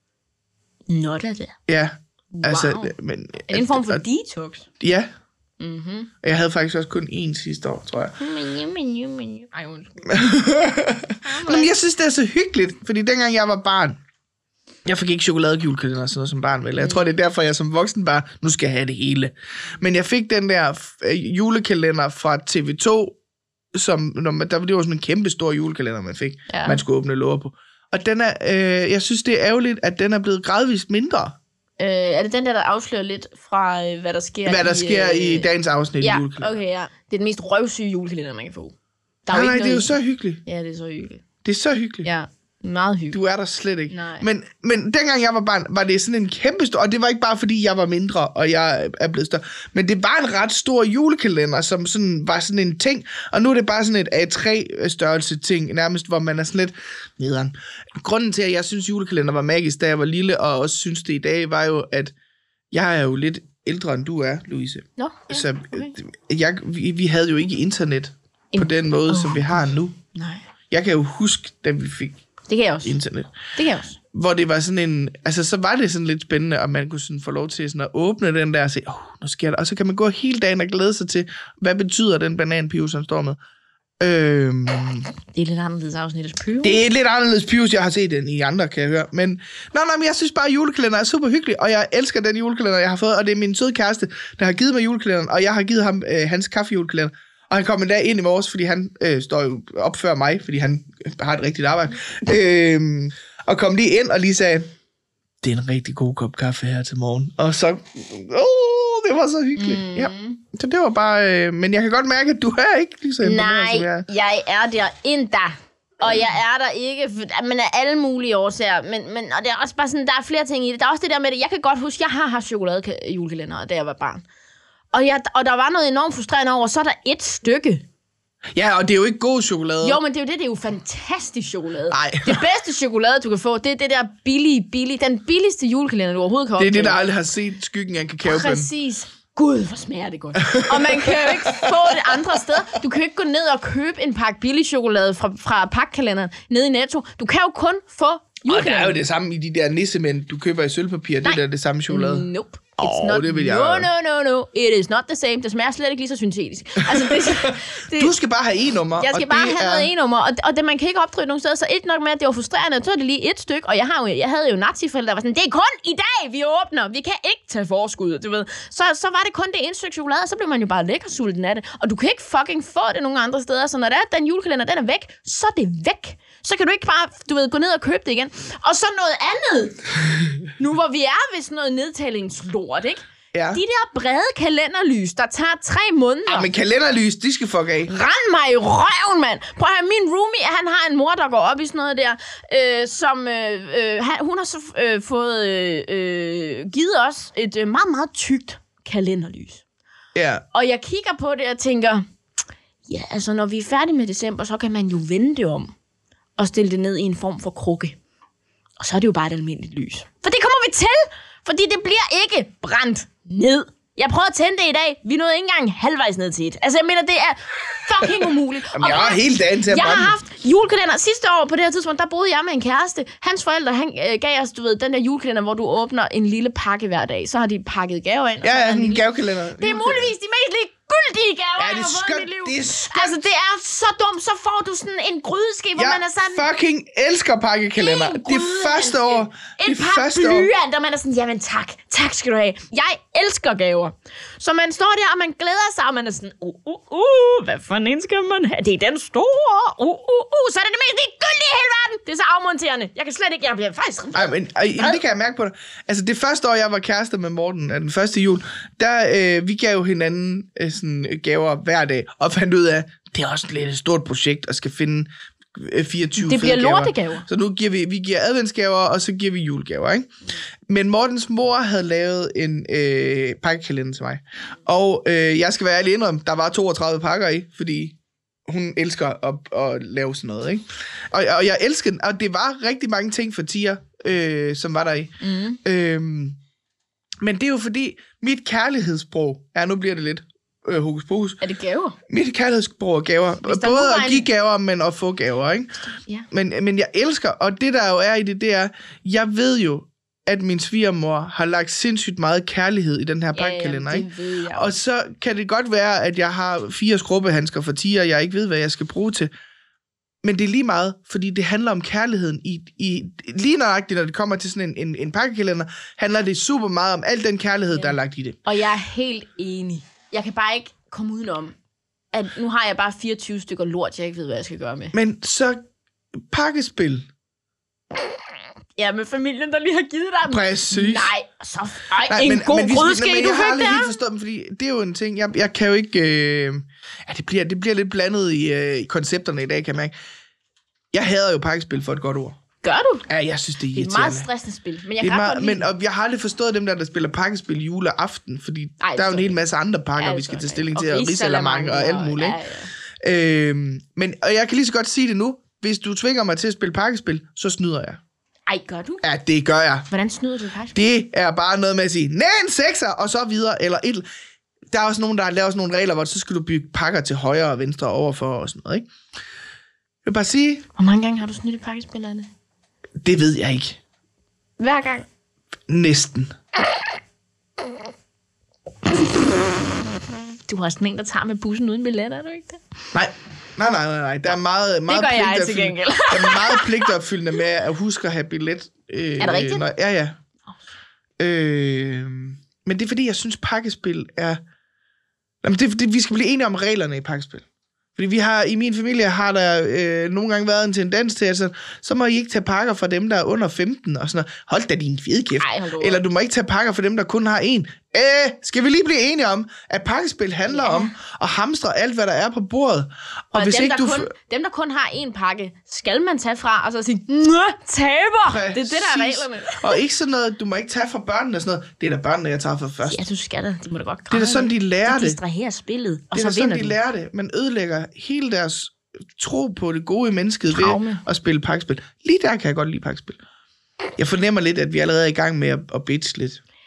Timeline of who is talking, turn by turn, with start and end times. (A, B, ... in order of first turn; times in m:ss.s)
0:00.9-0:01.6 A
0:01.7-0:04.0 B
0:02.3-0:03.0 A
0:03.5-0:04.7 A
0:04.8-0:05.1 B
0:05.6-0:06.1 A
0:06.2-0:08.2 B
0:08.2-0:10.4 A
0:10.1-0:14.0 B
0:11.2-0:11.7 A
0:14.8-0:23.2 B
0:16.8-0:17.1 A
0:23.7-0:31.4 B
0:26.5-0:26.8 A
0:31.8-0:38.8 A
0:34.5-0:36.6 B
0:39.3-0:41.2 A
0:39.3-0:40.4 B
0:41.4-0:42.1 B
0:42.0-0:43.2 A
0:43.1-1:02.1 B
0:43.9-0:44.3 A
1:02.7-1:10.0 B
1:05.0-1:05.9 A
1:08.5-1:10.4 A
1:10.7-1:12.2 B
1:12.5-1:13.0 A
1:12.8-1:13.3 B
1:13.6-1:14.0 A
1:14.1-1:23.4 B
1:24.0-1:25.1 B
1:25.3-1:26.8 A
1:26.6-1:44.7 B
1:45.4-1:54.1 B
1:49.6-1:50.4 A
1:53.2-2:04.2 A
2:04.9-2:07.8 A
2:08.5-2:10.0 B
2:09.8-2:17.0 A
2:11.9-2:12.4 B
2:16.6-2:18.7 B
2:18.2-2:29.0 A
2:20.4-2:22.2 B
2:28.5-2:33.9 B
2:31.2-2:38.1 A
2:36.9-2:39.9 B
2:39.0-2:59.8 A
3:00.6-3:06.5 A
3:03.3-3:03.6 B
3:06.3-3:07.9 B
3:07.9-3:19.6 A
3:20.2-3:20.4 B
3:20.5-3:22.0 A
3:22.9-3:25.7 A
3:26.4-3:28.0 A
3:28.8-3:49.1 A
3:38.7-3:40.2 B
3:48.4-3:50.1 B
3:49.6-3:56.5 A
3:51.6-3:53.2 B
3:55.8-4:00.5 B
3:57.8-4:15.0 A
4:14.2-4:30.1 B
4:26.2-4:27.3 A
4:30.7-4:46.4 B
4:45.2-4:45.6 A
4:47.2-4:51.4 B
4:51.4-4:52.0 A
4:52.1-4:55.7 B
4:53.4-4:54.3 A
4:56.3-5:09.3 B
5:03.3-5:04.8 A
5:10.2-5:18.4 B
5:17.7-5:21.6 A
5:22.1-5:25.0 A
5:24.9-5:25.6 B
5:26.3-5:27.1 B
5:28.8-5:34.0 A
5:30.3-5:31.1 B
5:32.1-5:39.9 B
5:40.9-5:42.4 B
5:42.6-5:43.1 A
5:43.1-5:44.3 B
5:43.7-5:45.7 A
5:45.0-5:52.4 B
5:48.8-5:49.4 A
5:50.0-5:52.7 A
5:53.0-5:58.0 B
5:58.5-5:59.0 A
5:59.0-5:59.9 B
5:59.9-6:00.8 A
6:00.7-6:04.1 B
6:04.7-6:08.9 B
6:10.0-6:10.7 B
6:10.8-6:12.3 A
6:13.0-6:13.8 B
6:14.6-6:15.1 A
6:15.7-6:16.3 B
6:20.5-6:22.6 A
6:22.9-6:30.2 B
6:24.9-6:26.9 A
6:29.2-6:29.6 A
6:31.2-6:34.4 B
6:35.4-6:37.4 B
6:38.0-6:54.1 B
6:45.4-6:46.0 A
6:50.5-6:51.0 A
6:53.3-6:59.8 A
6:58.3-7:03.0 B
7:02.9-7:06.8 A
7:04.1-7:05.2 B
7:06.1-7:13.2 B
7:10.5-7:11.0 A
7:14.0-7:16.4 B